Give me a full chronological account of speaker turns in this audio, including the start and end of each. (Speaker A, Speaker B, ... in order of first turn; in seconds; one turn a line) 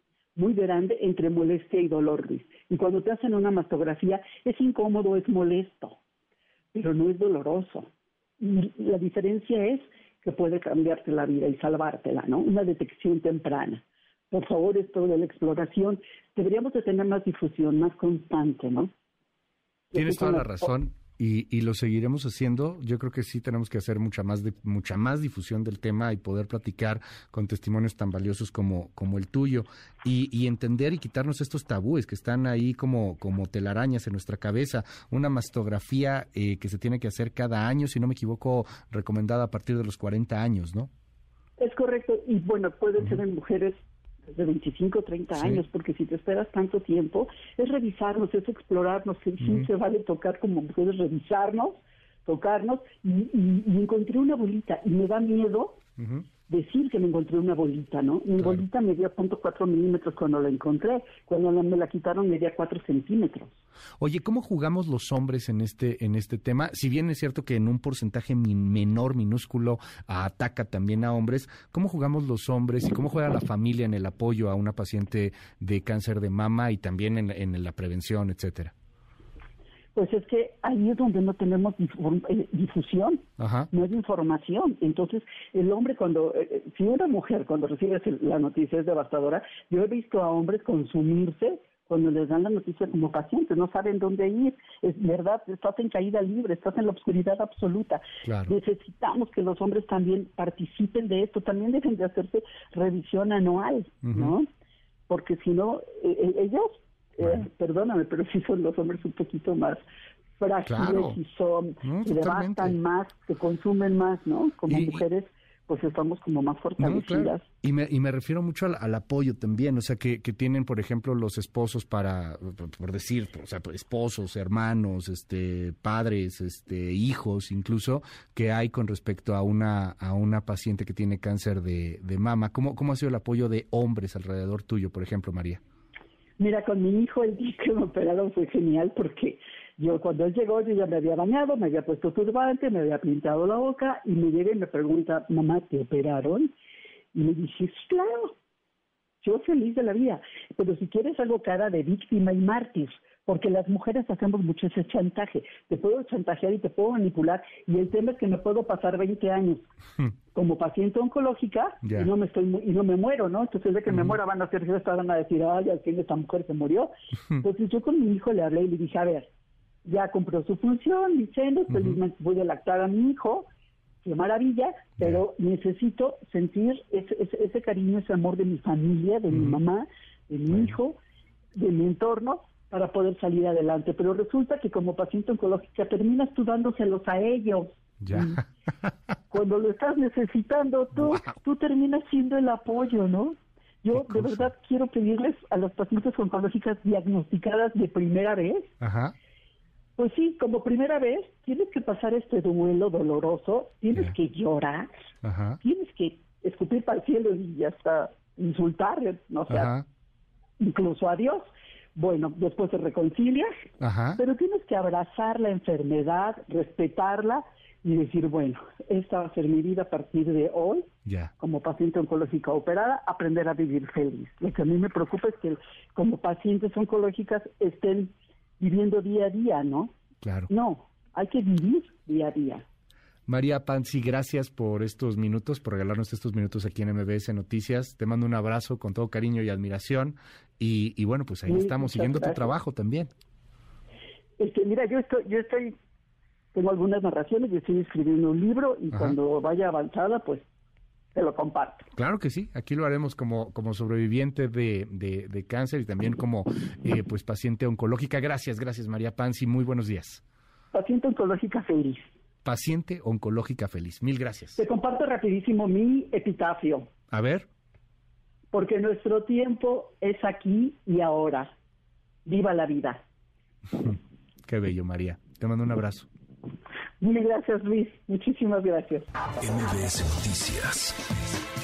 Speaker A: 0.4-6.0
Speaker A: 6.7-7.9
Speaker A: 8.4-18.9
Speaker A: 19.9-20.7
Speaker B: 19.9-40.9
Speaker A: 41.6-43.8
Speaker A: 44.3-55.8
Speaker B: 45.4-45.6
Speaker B: 56.0-56.2
Speaker A: 56.5-63.6
Speaker B: 58.4-58.6
Speaker B: 64.0-78.7
Speaker A: 79.9-104.5
Speaker B: 83.4-83.7
Speaker B: 98.2-98.5
Speaker B: 104.0-104.3
Speaker A: 105.1-109.8
Speaker A: 110.4-117.4
Speaker B: 110.7-111.2
Speaker B: 111.8-112.8
Speaker B: 114.7-115.0
Speaker B: 116.8-135.6
Speaker A: 136.4-146.5
Speaker A: 147.1-148.3
Speaker A: 149.2-159.7
Speaker A: 160.3-169.3
Speaker B: 161.8-162.1
Speaker A: 169.8-173.5
Speaker B: 171.7-172.0
Speaker A: 174.0-181.0
Speaker B: 179.3-179.6
Speaker A: 181.6-188.4
Speaker B: 188.1-188.4
Speaker A: 189.3-198.7
Speaker B: 193.9-194.5
Speaker B: 198.8-199.1
Speaker A: 200.0-204.9
Speaker B: 205.2-205.6
Speaker A: 205.6-209.7
Speaker B: 209.5-209.8
Speaker A: 210.6-213.5
Speaker B: 213.8-214.2
Speaker A: 214.2-220.9
Speaker B: 221.1-221.3
Speaker A: 221.4-229.9
Speaker B: 230.2-230.5
Speaker A: 230.5-232.7
Speaker B: 233.3-243.1
Speaker A: 241.4-242.6
Speaker A: 244.4-245.8
Speaker A: 246.5-250.4
Speaker B: 248.9-249.2
Speaker A: 251.2-251.9
Speaker B: 251.9-260.2
Speaker A: 260.7-262.0
Speaker B: 262.4-264.6
Speaker A: 264.6-266.9
Speaker B: 267.1-267.4
Speaker A: 268.5-271.5
Speaker A: 272.3-273.0
Speaker B: 273.8-276.1
Speaker A: 277.0-279.1
Speaker B: 279.9-280.9